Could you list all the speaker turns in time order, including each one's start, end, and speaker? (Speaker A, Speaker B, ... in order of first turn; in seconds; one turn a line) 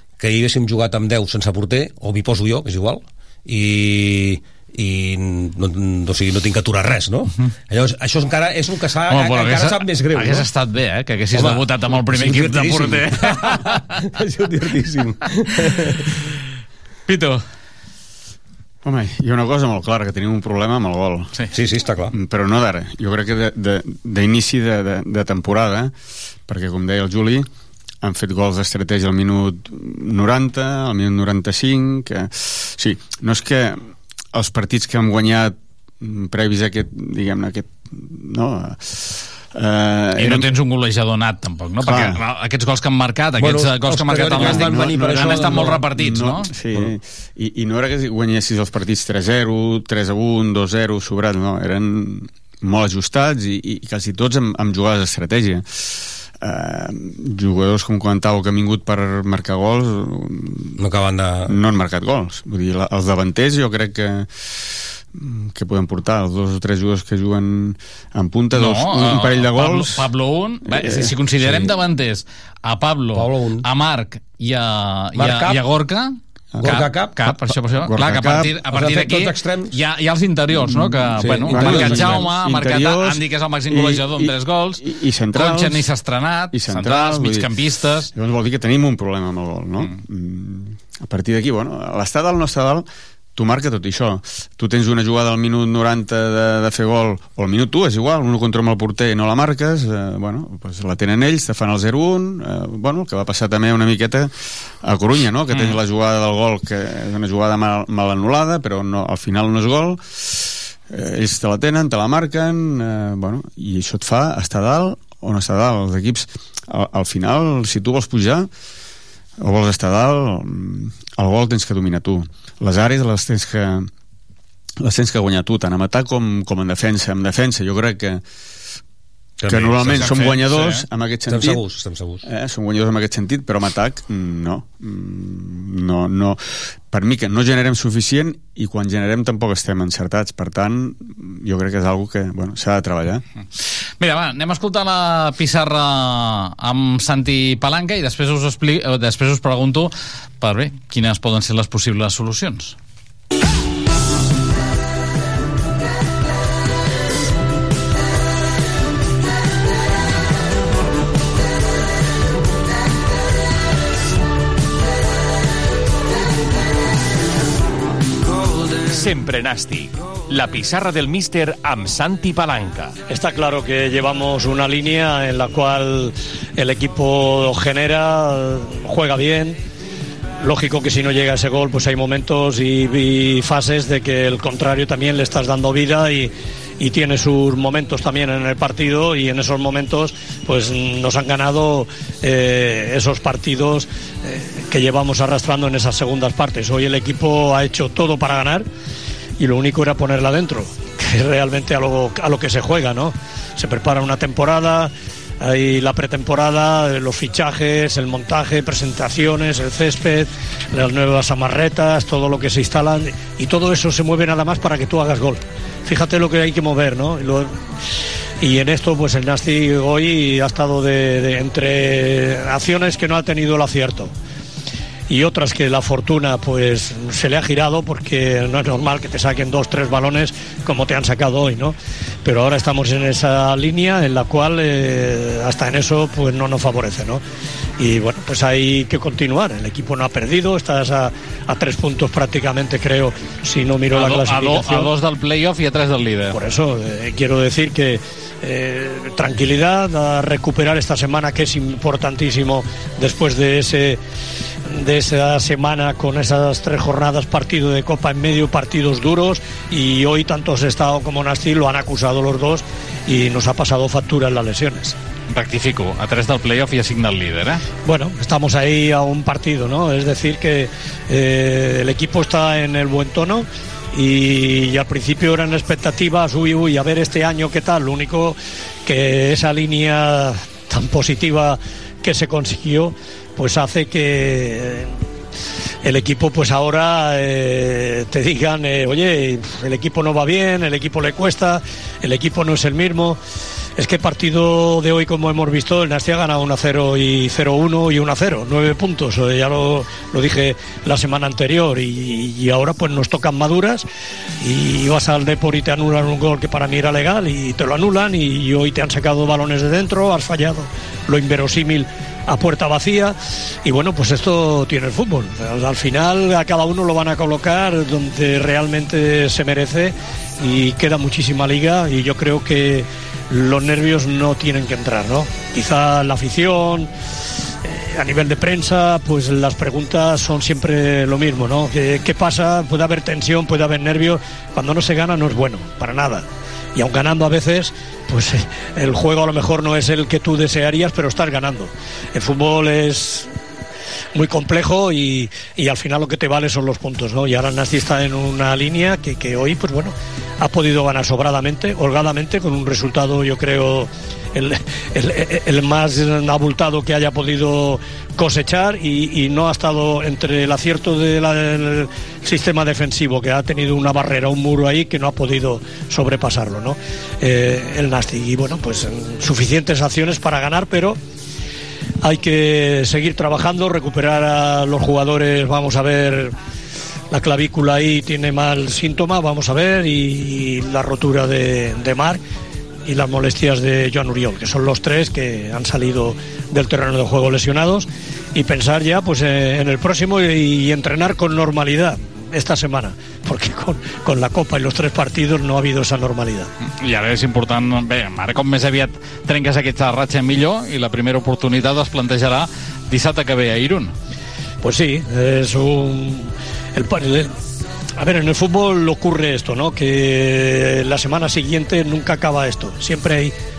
Speaker A: 0.2-10.5
Speaker B: 9.1-13.8
Speaker A: 11.3-16.1
Speaker B: 17.1-17.4
Speaker C: 18.8-21.3
Speaker A: 21.5-22.1
Speaker C: 22.1-25.9
Speaker C: 26.5-27.5
Speaker C: 28.0-40.5
Speaker B: 40.2-46.5
Speaker C: 41.8-42.2
Speaker A: 43.4-45.8
Speaker C: 44.2-60.8
Speaker A: 60.8-61.5
Speaker C: 61.5-64.5
Speaker C: 65.1-70.1
Speaker B: 68.5-88.1
Speaker C: 70.7-71.1
Speaker A: 73.1-73.7
Speaker A: 75.2-75.6
Speaker A: 76.6-77.2
Speaker C: 77.3-78.6
Speaker A: 78.7-79.8
Speaker C: 80.6-85.9
Speaker A: 81.5-82.2
Speaker C: 86.5-87.5
Speaker C: 88.1-104.3
Speaker C: 104.8-118.5
Speaker B: 105.5-105.8
Speaker C: 119.4-123.9
Speaker C: 124.8-128.2
Speaker A: 129.4-130.1
Speaker C: 129.5-131.6
Speaker B: 129.9-130.8
Speaker A: 131.3-132.2
Speaker C: 132.2-143.2
Speaker B: 144.0-152.8
Speaker D: 168.9-172.9
Speaker E: 173.1-179.6
Speaker E: 180.4-198.7
Speaker E: 199.4-217.6
Speaker E: 218.4-224.1
Speaker E: 225.1-237.2
Speaker E: 237.8-244.9
Speaker B: 243.9-246.4
Speaker E: 246.3-254.0
Speaker E: 254.7-265.0
Speaker B: 265.3-267.6
Speaker E: 267.9-284.9
Speaker E: 285.8-293.2
Speaker E: 293.8-303.9
Speaker E: 304.4-326.9
Speaker E: 327.6-343.3
Speaker E: 344.1-371.0
Speaker E: 372.0-376.3
Speaker E: 377.1-382.2
Speaker E: 382.9-396.5
Speaker B: 396.6-403.9
Speaker E: 404.6-407.3
Speaker E: 408.0-413.3